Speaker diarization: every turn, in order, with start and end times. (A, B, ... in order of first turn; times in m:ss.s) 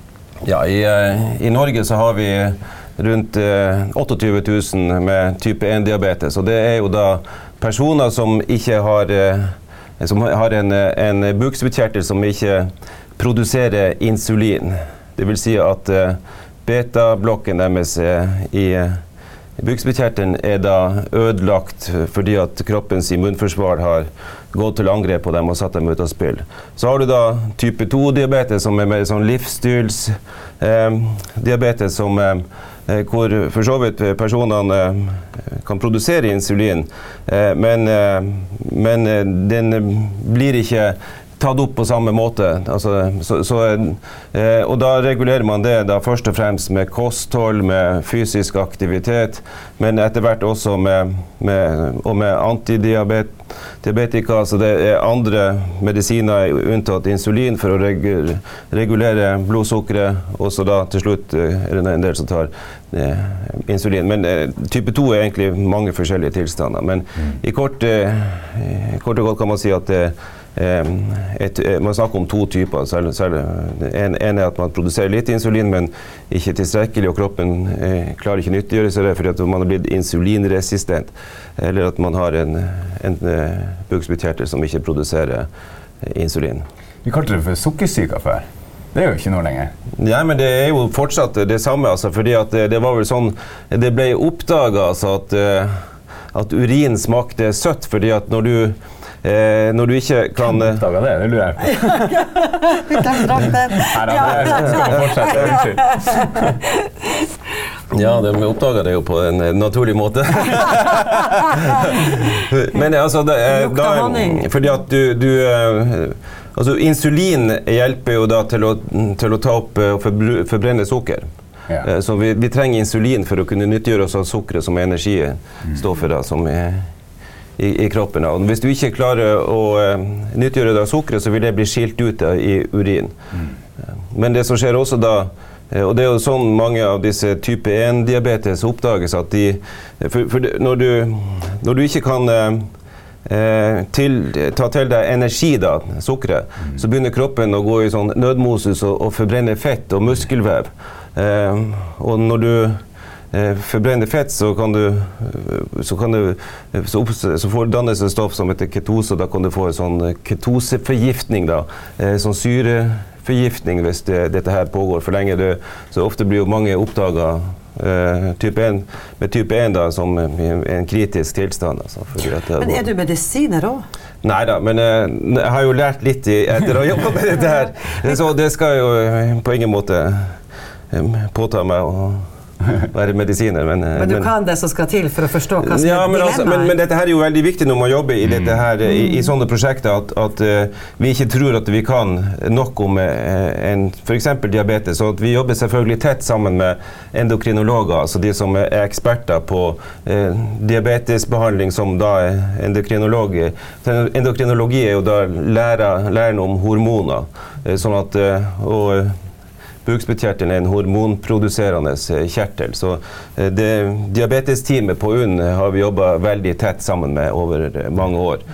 0:00.4-0:19.0 A
0:19.6-1:25.5 A
1:26.0-1:26.6 A
1:27.0-1:29.7 B
1:30.0-1:35.7 A
1:36.3-1:40.8 A
1:40.6-1:42.3 B
1:42.8-1:44.8 C
1:43.7-1:46.5 B
1:47.9-2:01.2 A
1:53.5-1:54.5 C
2:01.8-2:06.9 A
2:07.6-2:13.2 A
2:14.1-2:22.7 A
2:23.2-2:32.8 A
2:33.3-2:52.8 A
2:52.6-2:53.8 C
2:54.2-3:00.3 A
3:00.9-3:02.2 A
3:02.8-3:04.3 A
3:04.0-3:06.7 C
3:05.6-3:29.1 A
3:29.8-3:38.4 A